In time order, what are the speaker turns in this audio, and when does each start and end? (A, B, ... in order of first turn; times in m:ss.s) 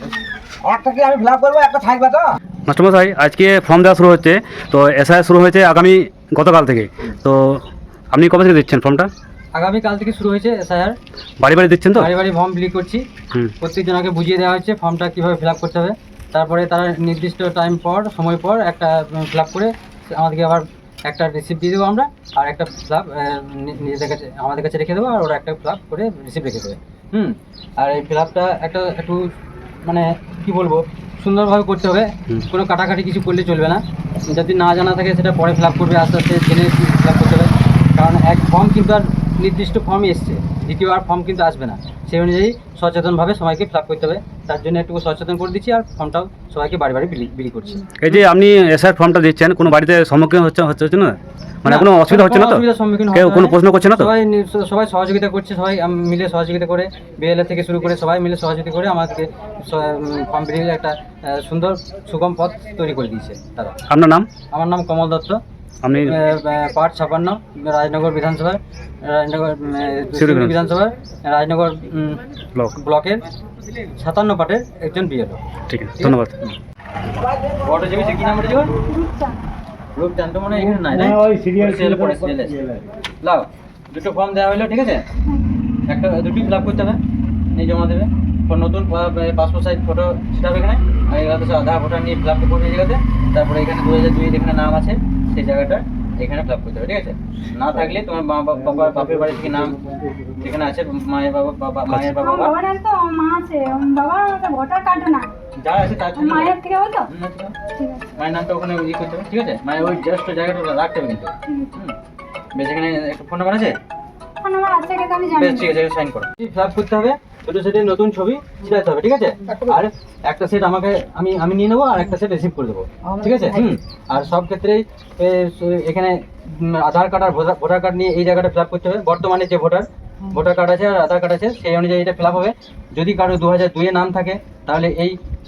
0:00.6-0:02.4 A
0:02.7-0:09.1 B
0:09.5-0:11.0 C
0:11.4-0:12.1 B
0:12.0-0:13.0 C
0:13.6-0:29.3 C
0:29.8-0:48.2 C
0:48.0-0:54.1 B
0:51.7-1:03.8 C
1:03.9-1:04.3 B
1:04.5-1:05.4 C
1:05.8-1:06.2 B
1:06.0-1:12.2 C
1:10.2-1:10.6 B
1:12.8-1:13.2 C
1:14.0-1:15.4 C
1:15.7-1:16.3 B
1:16.0-1:16.6 C
1:17.5-1:18.7 C
1:18.8-1:19.4 D
1:19.9-1:22.6 C
1:20.6-1:22.8 A
1:23.2-1:25.0 C
1:25.9-1:27.0 C
1:27.5-1:39.8 C
1:38.6-1:40.6 A
1:40.4-1:42.6 C
1:41.9-1:42.2 B
1:42.2-1:45.3 D
1:45.6-1:46.5 C
1:46.2-1:47.1 D
1:47.1-1:47.6 C
1:47.7-1:48.1 D
1:48.1-1:52.0 C
1:52.6-1:53.8 C
1:54.4-1:55.7 D
1:55.3-2:15.2 C
2:03.0-2:03.8 D